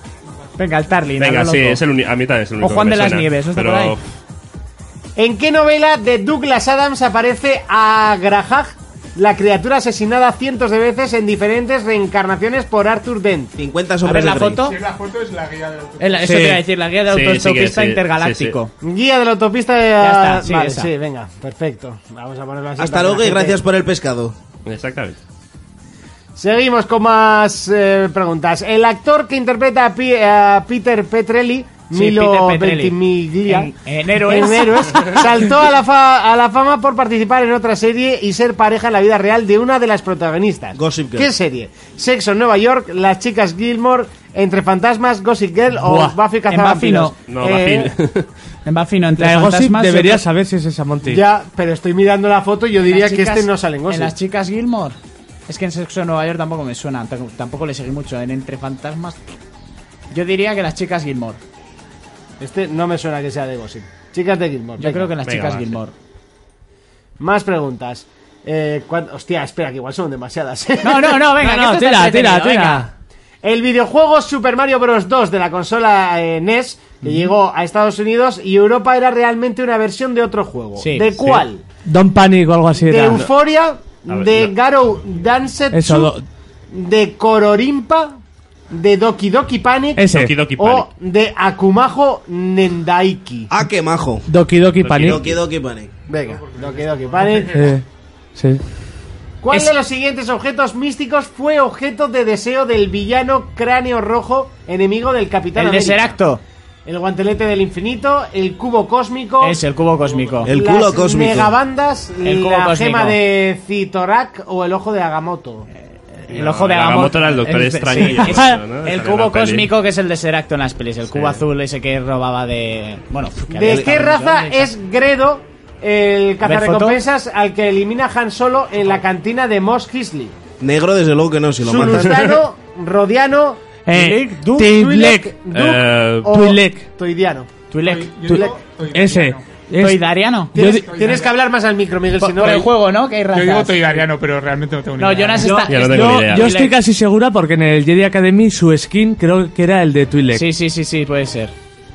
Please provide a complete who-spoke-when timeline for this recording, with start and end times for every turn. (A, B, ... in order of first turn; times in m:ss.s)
0:00.6-0:01.8 A
0:01.2-0:04.0 B
0:02.6-0:03.9 A
0:05.2-0:13.6 C
0:13.6-0:14.6 D
0:14.0-0:14.8 A
0:14.6-0:16.4 E
0:16.0-0:18.7 A
0:16.2-0:16.6 F
0:17.1-0:18.6 B
0:18.8-0:23.6 C
0:20.0-0:20.9 A
0:22.8-0:24.4 D
0:24.6-0:25.2 B
0:26.4-0:47.9 C
0:31.9-0:35.2 A
0:40.7-0:41.3 D
0:45.8-0:46.1 F
0:46.5-0:47.1 A
0:47.3-0:48.3 B
0:48.6-0:50.2 A
0:49.2-0:51.2 F
0:51.0-0:54.1 C
0:52.8-0:59.2 A
1:00.1-1:01.4 A
1:02.4-1:05.1 C
1:04.8-1:05.9 A
1:05.2-1:05.8 B
1:07.2-1:11.3 C
1:10.8-1:12.9 A
1:11.4-1:12.9 F
1:13.4-1:21.6 C
1:20.8-1:21.2 A
1:21.8-1:23.3 F
1:22.7-1:26.1 C
1:24.1-1:24.5 B
1:25.7-1:26.2 F
1:26.7-1:28.2 C
1:28.7-1:33.5 C
1:30.0-1:30.4 F
1:30.1-1:30.9 B
1:33.5-1:34.3 D
1:34.3-1:35.3 F
1:34.8-1:35.4 B
1:35.0-1:35.9 D
1:36.1-1:37.7 C
1:36.1-1:37.8 E
1:37.5-1:38.6 F
1:39.4-1:46.2 C
1:45.5-1:46.4 A
1:46.8-1:49.6 C
1:49.4-1:50.5 A
1:50.0-1:50.3 E
1:50.4-1:51.5 D
1:50.4-1:55.7 C
1:52.2-1:53.2 A
1:56.2-2:04.7 A
1:56.3-1:59.7 B
1:58.2-1:58.6 F
2:01.1-2:01.4 B
2:03.5-2:10.4 C
2:06.4-2:07.0 A
2:10.6-2:12.3 D
2:11.6-2:13.6 C
2:13.8-2:15.4 F
2:13.9-2:14.7 A
2:14.6-2:17.5 C
2:15.5-2:16.3 B
2:16.3-2:16.9 F
2:17.7-2:18.5 A
2:17.8-2:19.5 E
2:18.9-2:20.9 F
2:19.8-2:20.5 A
2:20.5-2:22.7 C
2:20.7-2:21.4 E
2:22.2-2:24.1 A
2:23.3-2:25.7 E
2:25.0-2:26.8 A
2:25.4-2:30.5 F
2:25.6-2:26.5 B
2:30.3-2:31.5 A